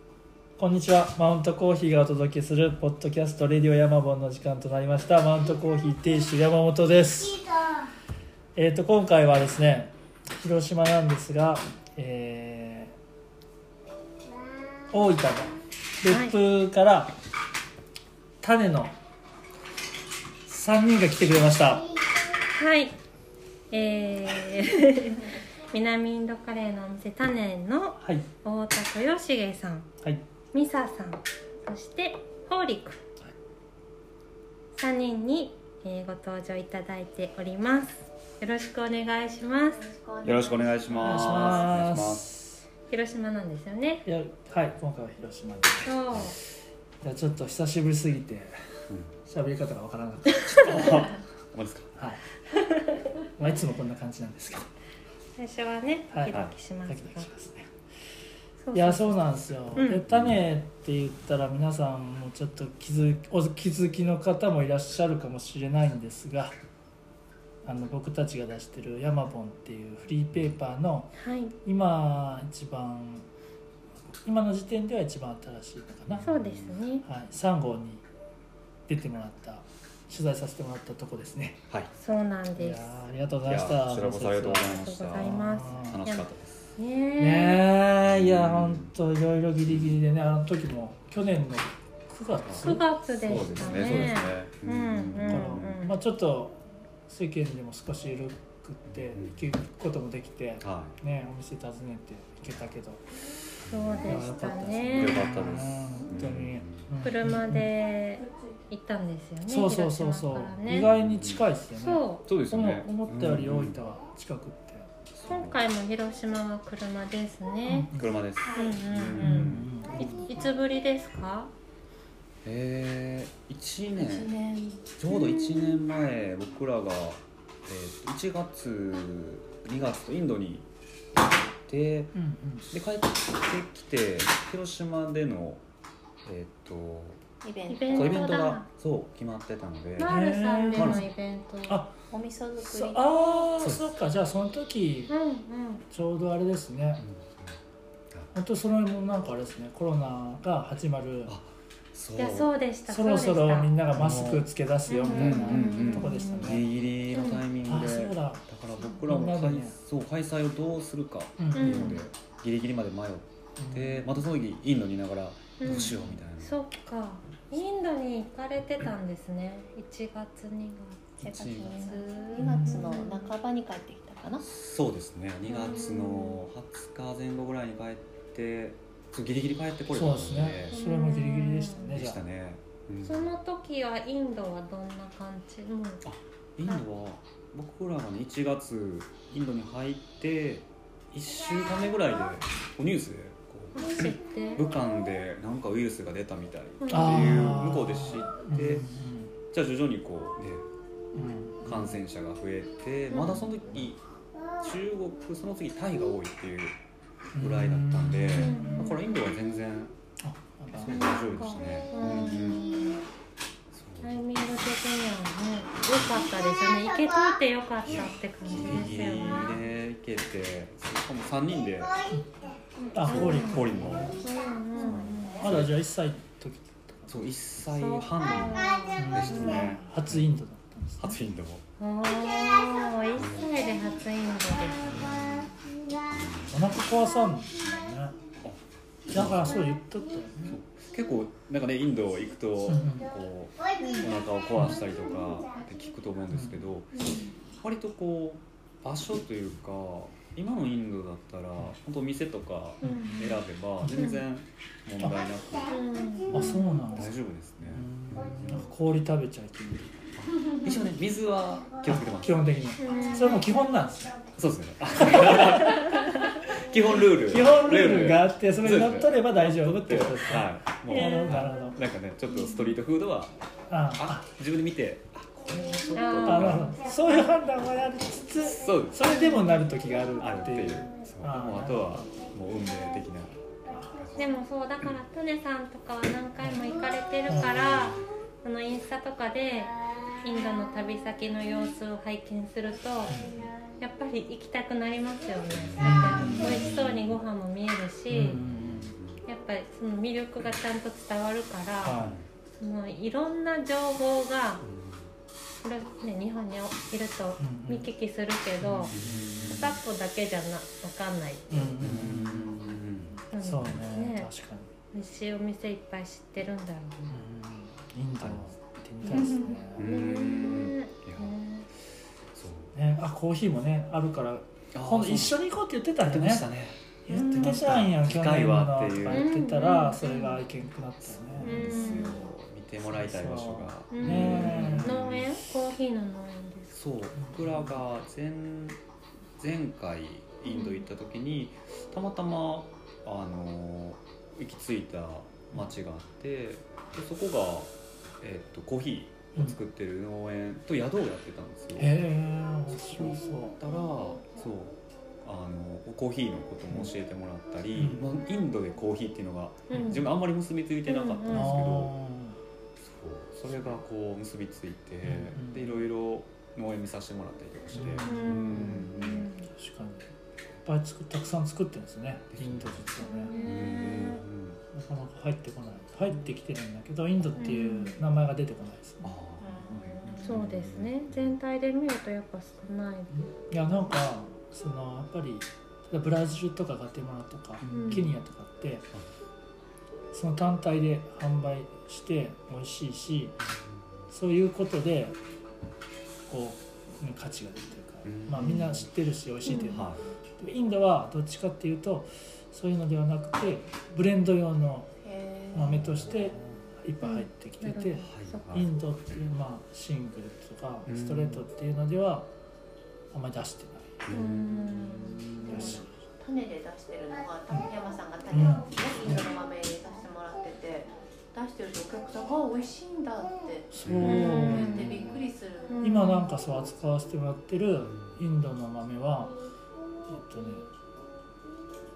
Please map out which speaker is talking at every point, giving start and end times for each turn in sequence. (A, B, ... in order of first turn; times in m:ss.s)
0:00.6-0:07.4 A
0:08.6-0:12.9 A
0:14.9-0:17.1 A
0:16.1-0:16.4 B
0:18.4-0:19.0 A
0:20.5-0:21.9 A
0:22.5-0:22.9 B
0:23.7-0:29.9 B
0:28.0-0:28.2 A
0:30.5-0:33.0 B
0:34.8-0:39.9 B
0:39.8-0:41.6 C
0:40.2-0:42.3 D
0:41.0-0:42.6 A
0:42.9-0:44.0 B
0:44.0-0:45.9 A
0:45.8-0:46.4 B
0:46.1-0:46.4 D
0:47.0-0:48.6 A
0:49.2-0:50.8 A
0:50.5-0:51.9 D
0:52.0-0:52.2 A
0:52.5-0:53.0 B
0:53.4-0:54.7 A
0:55.4-0:57.3 B
0:56.9-0:57.7 A
0:58.6-0:59.2 B
0:58.7-1:06.6 A
0:59.8-1:00.0 B
1:00.1-1:00.4 D
1:07.6-1:11.1 A
1:11.2-1:11.6 B
1:11.6-1:13.3 A
1:14.1-1:16.3 A
1:16.1-1:16.8 D
1:16.2-1:17.0 B
1:17.0-1:18.0 A
1:18.9-1:21.6 A
1:22.0-1:23.0 B
1:22.6-1:26.0 A
1:23.5-1:26.7 D
1:24.6-1:27.7 B
1:27.2-1:34.2 A
1:28.0-1:28.9 D
1:32.3-1:35.8 D
1:32.6-1:36.0 B
1:35.2-1:43.0 A
1:38.9-1:39.5 D
1:40.6-1:41.0 D
1:43.6-1:44.2 D
1:43.6-1:45.4 B
1:44.0-1:47.7 A
1:44.9-1:46.8 D
1:47.0-1:50.9 B
1:49.5-1:54.9 A
1:50.7-1:51.4 D
1:51.8-1:52.2 B
1:52.3-1:53.8 D
1:55.1-1:55.6 D
1:55.3-1:57.9 B
1:57.7-1:58.2 A
1:58.0-1:59.7 D
1:58.5-1:58.8 C
1:58.5-2:01.5 B
1:59.2-2:00.2 A
2:02.4-2:04.3 D
2:04.0-2:05.8 C
2:05.0-2:12.1 D
2:12.1-2:12.7 A
2:12.7-2:15.6 D
2:16.2-2:17.2 D
2:17.4-2:18.5 C
2:17.7-2:18.7 B
2:17.9-2:20.2 D
2:20.0-2:21.8 B
2:20.1-2:21.1 A
2:20.7-2:21.0 D
2:21.7-2:21.9 A
2:22.1-2:23.2 C
2:22.6-2:25.1 A
2:23.6-2:23.9 D
2:25.1-2:25.8 B
2:25.9-2:27.0 A
2:27.0-2:27.6 D
2:28.3-2:31.3 A
2:31.3-2:32.5 D
2:32.2-2:33.8 B
2:32.9-2:36.7 A
2:33.9-2:34.5 D
2:34.9-2:36.6 B
2:35.0-2:46.6 D
2:37.1-2:37.4 B
2:37.6-2:38.5 A
2:39.0-2:39.8 A
2:41.4-2:42.0 A
2:41.5-2:42.0 B
2:43.6-2:44.1 A
2:45.6-2:51.2 B
2:45.7-2:46.2 A
2:51.2-2:52.0 D
2:51.2-2:54.5 C
2:51.8-2:53.3 B
2:52.4-2:53.0 A
2:54.4-3:00.8 D
2:55.5-2:56.4 B
2:59.9-3:02.2 A
3:00.7-3:01.9 B
3:01.9-3:03.3 D
3:03.0-3:06.0 B
3:06.0-3:18.9 D
3:13.8-3:14.7 B
3:16.8-3:17.5 B
3:16.9-3:19.3 A
3:19.5-3:20.7 D
3:21.1-3:21.9 A
3:21.6-3:24.0 D
3:23.1-3:23.5 B
3:24.6-3:26.8 D
3:27.3-3:28.9 A
3:27.4-3:30.0 D
3:28.4-3:29.0 B
3:30.2-3:31.0 A
3:30.7-3:32.7 D
3:30.9-3:33.0 B
3:33.7-3:34.3 D
3:34.0-3:39.6 B
3:37.9-3:42.0 D
3:42.9-3:44.2 A
3:43.0-3:44.2 D
3:43.1-3:45.4 B
3:44.8-3:45.8 D
3:45.4-3:47.1 A
3:47.1-3:50.3 D
3:47.7-3:49.7 B
3:49.0-3:51.2 A
3:51.0-3:51.6 D
3:51.8-3:55.0 B
3:53.2-3:53.5 D
3:54.8-3:55.5 A
3:55.0-3:55.5 D
3:56.1-3:56.6 D
3:56.5-3:58.2 A
3:59.1-4:00.6 A
3:59.1-3:59.7 D
4:00.4-4:15.8 D
4:02.6-4:03.1 A
4:06.3-4:06.6 A
4:06.9-4:07.3 B
4:12.8-4:14.0 A
4:12.8-4:13.3 B
4:13.9-4:14.2 B
4:15.7-4:16.7 B
4:16.3-4:18.7 D
4:16.3-4:20.0 A
4:20.2-4:22.4 D
4:21.8-4:24.2 A
4:22.8-4:23.5 B
4:24.4-4:33.3 D
4:25.0-4:25.8 A
4:27.2-4:31.8 A
4:30.9-4:31.5 B
4:33.7-4:34.3 A
4:34.0-4:36.7 D
4:36.0-4:37.2 B
4:36.2-4:42.1 A
4:38.4-4:39.3 D
4:39.1-4:39.6 B
4:40.2-4:44.2 D
4:43.7-4:44.1 A
4:44.2-4:58.4 B
4:47.3-4:48.0 A
4:53.1-4:53.5 A
4:55.6-4:57.2 D
4:55.8-4:56.7 A
4:58.1-4:58.9 A
4:58.4-4:59.2 D
4:59.2-5:02.0 B
5:01.8-5:02.2 A
5:02.0-5:02.3 D
5:02.6-5:04.6 B
5:04.6-5:05.1 D
5:05.6-5:11.7 B
5:07.4-5:07.9 A
5:08.6-5:09.8 A
5:08.9-5:09.8 D
5:11.5-5:12.8 A
5:11.8-5:13.2 D
5:13.3-5:14.3 B
5:13.4-5:14.7 A
5:14.9-5:17.1 B
5:17.1-5:19.8 A
5:18.2-5:18.5 D
5:19.1-5:19.6 C
5:19.8-5:21.3 D
5:19.8-5:21.7 B
5:22.3-5:22.7 D
5:22.8-5:26.5 A
5:24.7-5:25.4 D
5:26.0-5:29.3 D
5:27.0-5:31.9 A
5:27.1-5:27.6 B
5:29.1-5:30.4 B
5:31.2-5:35.4 D
5:31.4-5:32.3 B
5:32.8-5:35.0 A
5:33.9-5:36.8 B
5:36.7-5:38.8 D
5:37.2-5:37.8 A
5:39.4-5:51.9 D
5:40.5-5:40.8 B
5:51.8-5:53.6 A
5:52.7-6:01.9 D
5:57.8-5:58.1 A
5:59.7-6:00.1 B
5:59.7-6:00.0 A
6:00.9-6:01.6 B
6:01.3-6:02.4 A
6:02.8-6:09.3 D
6:05.0-6:05.8 A
6:07.7-6:08.9 A
6:08.0-6:09.5 B
6:09.5-6:10.1 A
6:10.6-6:13.3 A
6:12.3-6:12.9 D
6:13.0-6:14.2 B
6:13.4-6:14.6 D
6:14.7-6:20.4 A
6:17.4-6:18.0 B
6:19.0-6:21.3 D
6:19.4-6:20.2 C
6:20.2-6:23.3 B
6:23.1-6:28.9 A
6:27.6-6:28.2 D
6:27.7-6:28.1 B
6:30.1-6:33.4 A
6:33.5-6:33.8 D
6:34.1-6:35.2 A
6:36.3-6:44.9 A
6:38.0-6:38.9 D
6:39.4-6:39.8 B
6:39.7-6:40.0 D
6:45.0-6:45.8 C
6:45.5-6:52.3 A
6:45.7-6:46.4 D
6:47.0-6:48.6 B
6:48.1-6:48.7 D
6:50.9-6:51.4 D
6:53.1-6:53.9 A
6:54.0-6:55.8 D
6:54.1-6:55.8 B
6:55.5-6:55.9 A
6:56.2-7:05.8 C
6:58.3-6:59.2 A
7:03.7-7:04.8 A
7:03.8-7:05.2 D
7:04.0-7:05.0 B
7:05.7-7:06.3 B
7:05.8-7:09.3 A
7:07.8-7:08.2 D
7:10.0-7:10.7 A